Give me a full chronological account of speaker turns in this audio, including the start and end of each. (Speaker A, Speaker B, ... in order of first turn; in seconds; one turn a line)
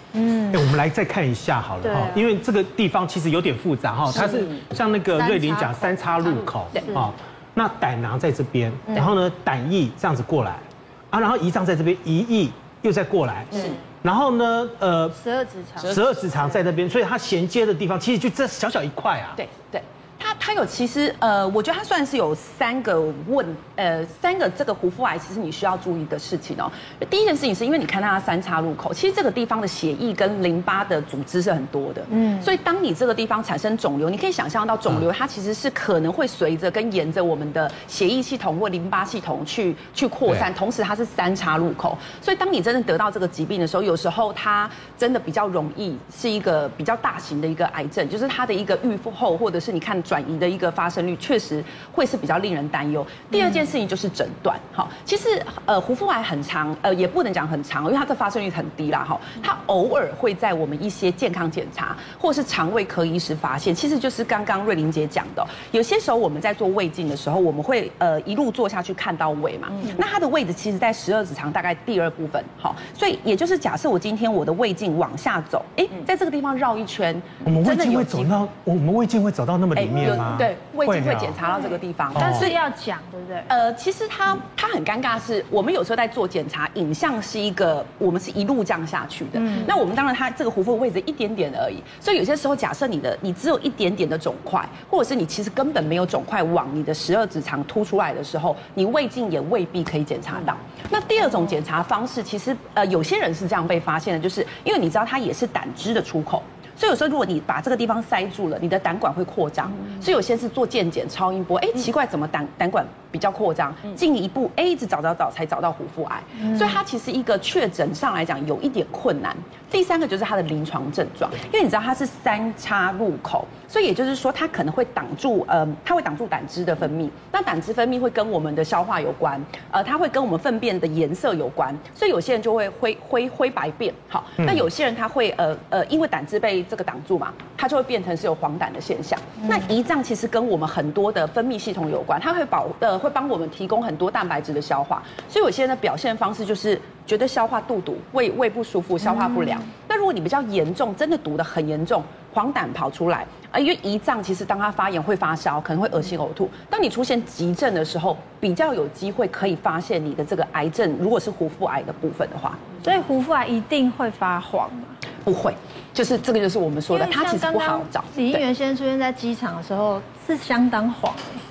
Speaker A: 0.1-0.6
Speaker B: 0.5-15.2
Speaker A: 1.8-2.3
Speaker A: 5.2-7.1
Speaker C: 13.5-13.8
Speaker A: 15.2-16.2
Speaker B: 15.8-19.4
Speaker C: 19.4-78.3
Speaker A: 32.1-32.5
Speaker B: 77.4-81.4
Speaker C: 79.8-82.6
Speaker A: 81.5-83.5
Speaker B: 82.1-82.5
Speaker C: 83.5-162.6
Speaker A: 89.4-89.8
Speaker A: 162.8-165.0
Speaker C: 165.2-168.4
Speaker A: 166.9-171.4